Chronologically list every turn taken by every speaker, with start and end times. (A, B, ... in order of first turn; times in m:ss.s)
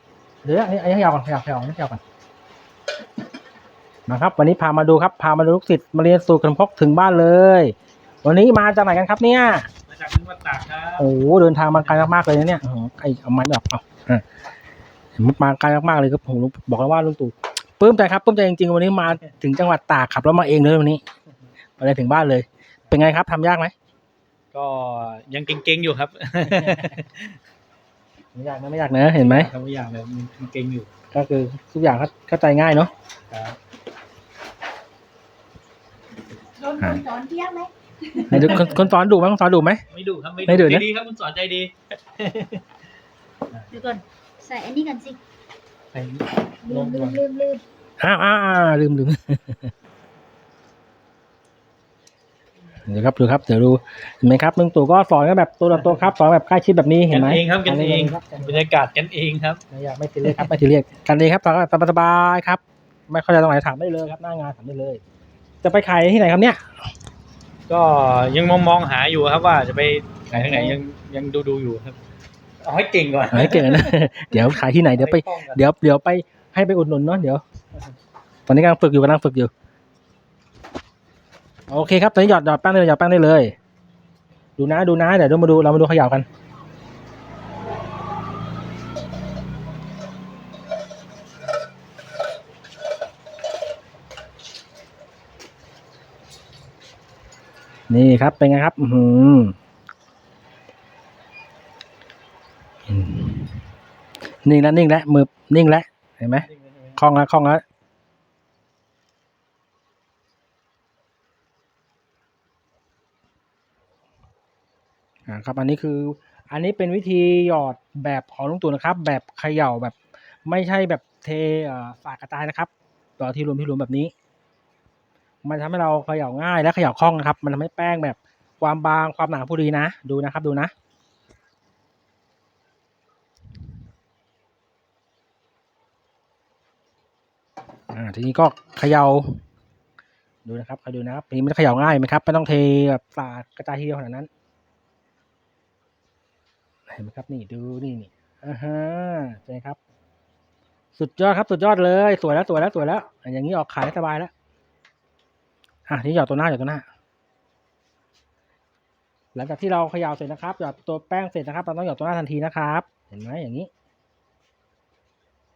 0:00.4-0:02.0 A
0:04.1-0:09.7 A
0:09.9-0:11.1 B
0:11.0-0:14.2 A
0:15.2-0:21.0 A
0:21.8-0:23.7 A
0:24.5-0:27.3 B
0:26.6-0:26.9 A
0:28.3-0:29.5 A
0:29.2-0:30.9 B
0:31.1-0:32.9 A
0:33.3-0:33.6 B
0:36.6-0:38.3 C
0:38.3-0:39.8 A
0:38.3-0:38.8 B
0:39.9-0:42.6 B
0:40.4-0:40.9 A
0:43.7-0:45.2 C
0:45.9-0:47.2 B
0:46.6-0:47.6 C
0:48.0-0:49.7 A
0:52.8-0:58.6 A
0:57.1-0:59.6 B
0:59.7-1:05.0 A
1:05.6-1:06.6 A
1:07.7-1:12.0 B
1:10.3-1:10.8 A
1:12.6-1:15.6 B
1:13.3-1:17.4 A
1:18.5-1:19.5 A
1:21.7-1:23.5 A
1:24.6-1:26.2 A
1:37.9-1:39.5 A
1:42.9-1:43.6 A
1:44.4-1:47.6 A
1:46.5-1:47.0 B
1:55.3-2:04.1 A
2:05.4-2:10.7 A
2:17.9-2:19.3 A
2:20.4-2:24.3 A
2:26.9-2:29.8 A
2:31.0-2:34.3 A
2:35.9-2:36.8 A
2:39.3-2:43.7 A